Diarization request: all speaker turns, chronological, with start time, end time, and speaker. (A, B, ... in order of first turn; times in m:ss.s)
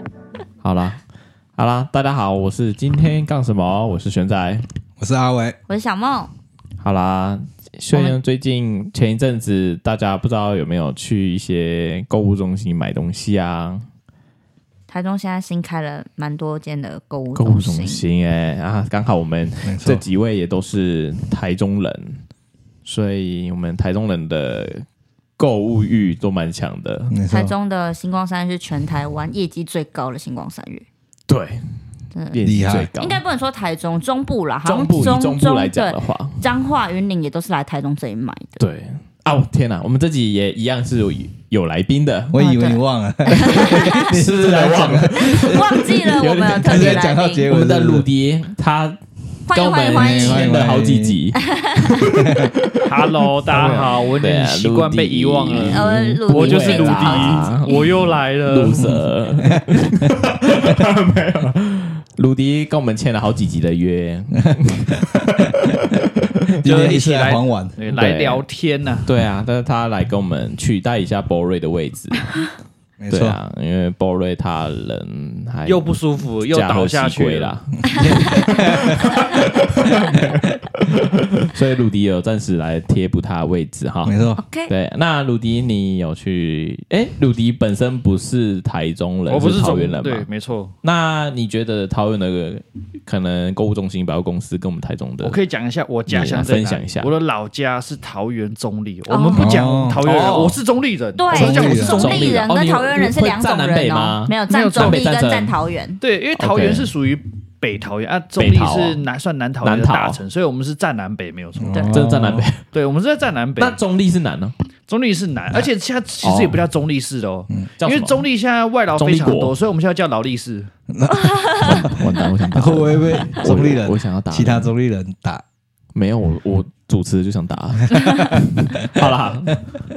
0:00.6-0:01.0 A
0:01.6-0:04.6 A
0:05.0-0:05.6 B
0:05.7-0:06.3 C
0:06.8-0:13.8 A
0:07.9-0:08.2 C
0:14.9-0:18.0 C
0:17.4-0:22.2 A
0:19.6-0:20.0 B
0:22.8-0:24.8 A
0:25.4-0:27.2 A
0:27.1-0:27.5 B
0:27.3-0:30.9 C
0:31.3-0:31.6 A
0:32.1-0:32.4 C
0:32.3-0:33.2 A
0:32.4-0:32.9 B
0:33.0-0:38.6 C
0:34.6-0:36.4 A
0:38.6-0:42.4 A
0:42.3-0:46.0 B
0:42.4-0:42.8 C
0:43.3-0:44.2 C
0:43.3-0:51.4 A
0:45.2-0:47.5 C
0:46.6-0:48.1 B
0:49.5-0:50.5 C
0:49.9-0:51.2 B
0:51.4-0:52.1 C
0:52.0-1:06.6 A
0:52.1-0:52.5 B
0:52.9-0:58.9 D
0:55.6-0:58.0 C
0:58.8-1:00.8 B
1:04.5-1:05.7 B
1:06.6-1:07.8 B
1:06.6-1:09.1 D
1:07.9-1:08.4 A
1:09.1-1:12.5 A
1:13.0-1:13.4 B
1:13.1-1:30.3 A
1:15.7-1:17.5 D
1:17.9-1:20.5 B
1:24.0-1:24.4 B
1:24.4-1:24.7 C
1:29.3-1:30.7 D
1:30.8-1:35.4 A
1:35.2-1:42.5 D
1:36.1-1:37.1 A
1:39.1-1:39.6 C
1:39.4-1:40.0 B
1:40.0-1:40.6 A
1:41.2-1:46.0 C
1:41.3-1:42.0 B
1:41.6-1:45.6 A
1:44.5-1:45.0 D
1:46.0-1:52.0 D
1:46.4-1:46.9 A
1:48.4-1:49.0 A
1:49.6-1:50.2 A
1:51.6-1:52.5 B
1:51.8-1:52.6 A
1:52.7-1:53.8 D
1:53.6-1:54.5 A
1:54.9-2:00.7 D
1:56.2-1:56.6 A
1:57.8-1:58.3 A
1:59.0-1:59.6 A
2:00.9-2:05.4 B
2:01.1-2:01.8 C
2:01.6-2:04.7 A
2:06.0-2:09.7 A
2:08.0-2:09.1 B